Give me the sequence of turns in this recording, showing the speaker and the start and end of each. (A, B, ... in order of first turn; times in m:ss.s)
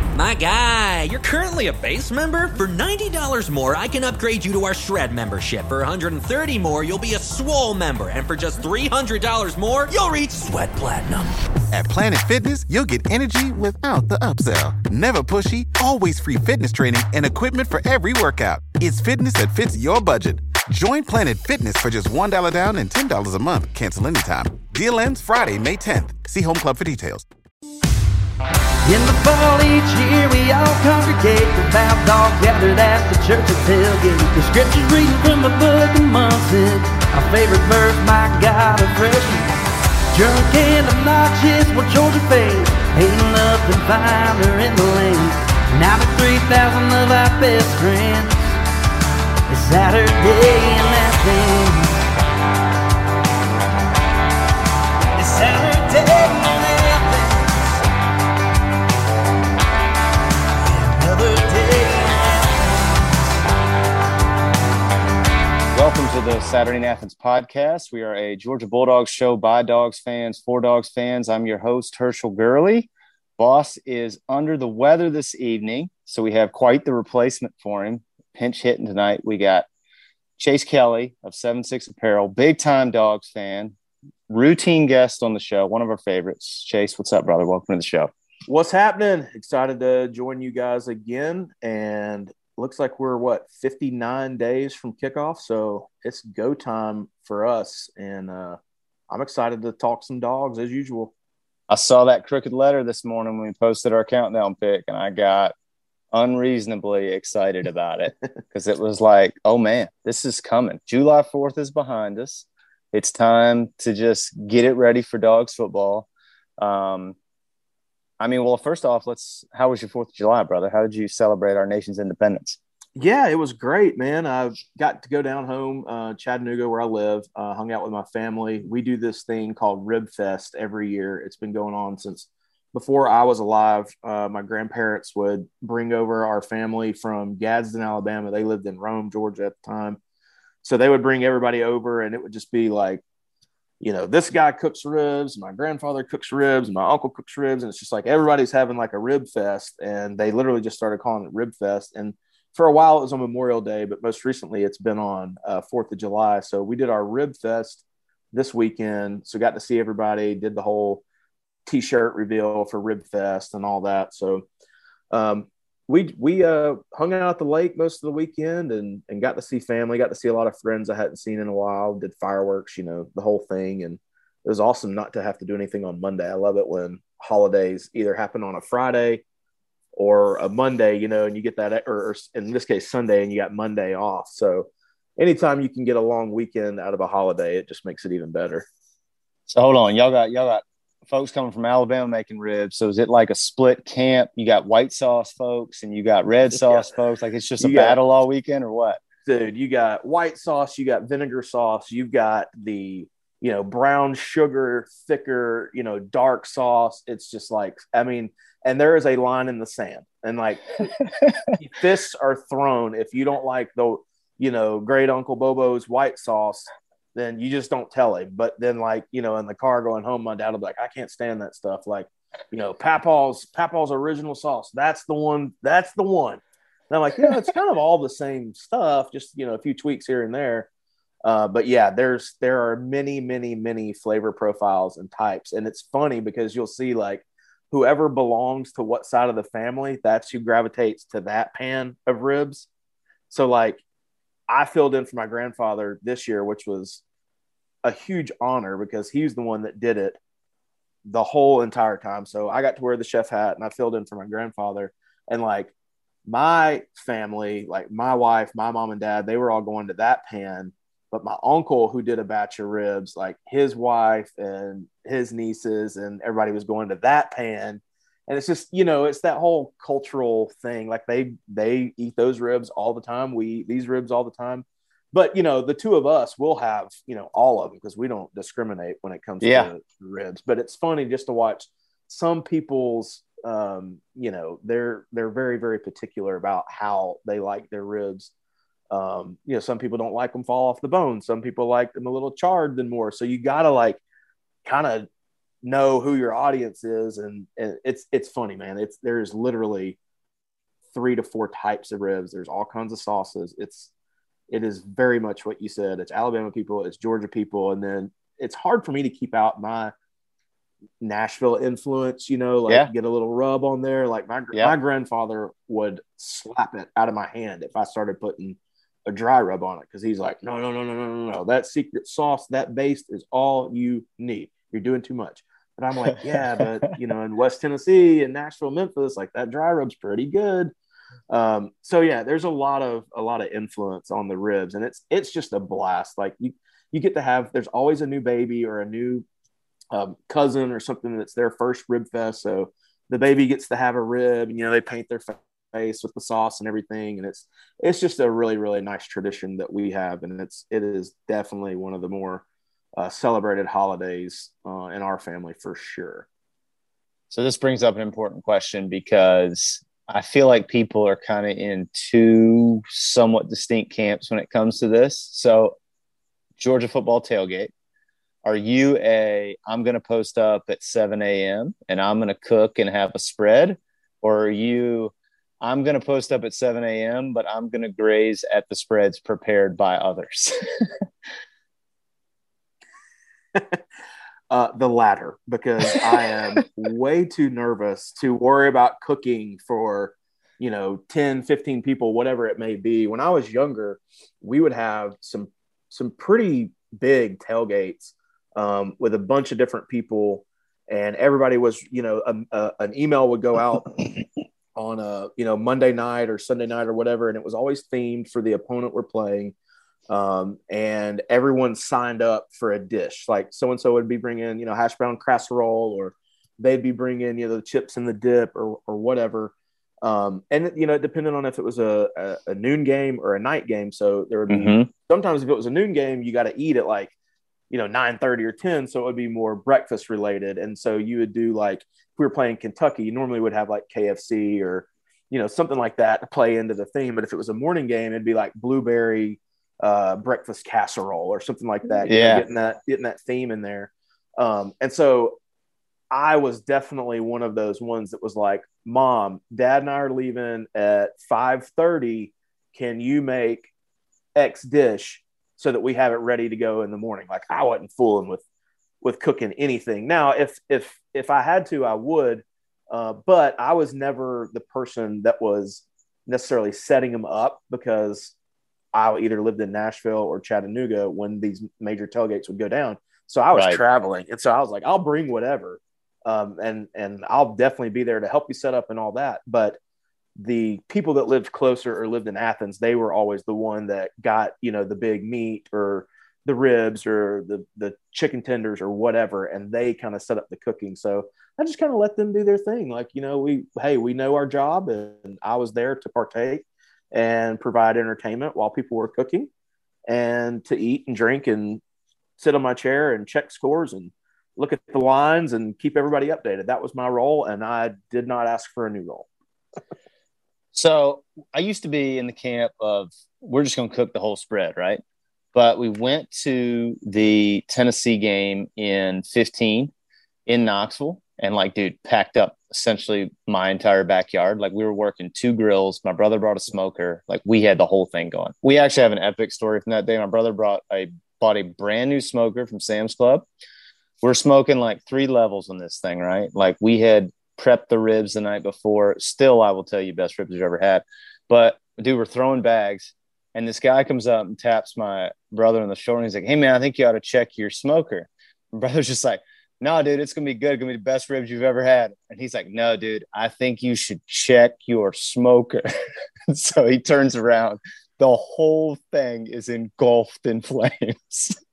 0:00.1-0:11.4 A
0:11.7-0:27.2 B
0:28.8-0:39.5 C
0:40.1-0:48.5 C
0:49.5-0:52.0 C
0:55.2-0:57.5 C
1:00.8-1:02.8 C
1:05.7-1:19.7 D
1:20.4-1:23.7 D
1:24.3-1:28.1 D
1:28.5-1:38.6 E
1:39.1-1:41.1 E
1:41.7-1:45.5 D
1:46.1-1:57.2 D
1:58.2-2:02.6 D
2:03.0-2:20.0 E
2:20.6-2:23.0 E
2:23.8-2:41.0 E
2:41.6-2:44.4 E
2:45.1-2:59.2 E
3:00.0-3:08.6 E
3:09.5-3:19.0 D
3:17.6-3:18.0 E
3:19.2-3:30.8 E
3:31.0-3:31.5 D
3:31.6-3:50.7 E
3:51.2-4:02.7 E
4:03.3-4:03.8 E
4:04.5-4:07.0 E
4:07.8-4:10.2 E
4:11.0-4:15.7 E
4:16.2-4:48.3 E
4:39.4-4:39.7 D
4:48.9-4:54.0 E
4:54.6-4:55.1 E
4:55.6-5:00.0 E
5:00.9-5:03.9 E
5:04.5-5:09.9 E
5:11.0-5:30.7 E
5:26.3-5:26.6 D
5:31.3-5:39.2 E
5:39.9-5:52.4 E
5:53.0-5:56.3 E
5:57.3-6:05.8 D
6:06.6-6:07.7 D
6:08.4-6:20.9 D
6:23.5-6:23.8 E
6:24.5-6:44.2 E
6:44.7-6:49.5 E
6:50.1-7:07.1 E
7:04.5-7:04.9 D
7:07.7-7:25.4 E
7:22.0-7:22.4 D
7:26.1-7:33.7 E
7:34.4-7:38.4 E
7:39.0-7:48.3 E
7:48.9-7:59.8 E
7:53.5-7:53.8 D
8:00.4-8:19.5 E
8:20.1-8:21.8 E
8:22.4-8:29.3 E
8:30.7-8:35.0 D
8:35.5-8:39.9 D
8:40.4-8:53.4 D
8:54.2-9:15.9 D
9:16.5-9:21.6 D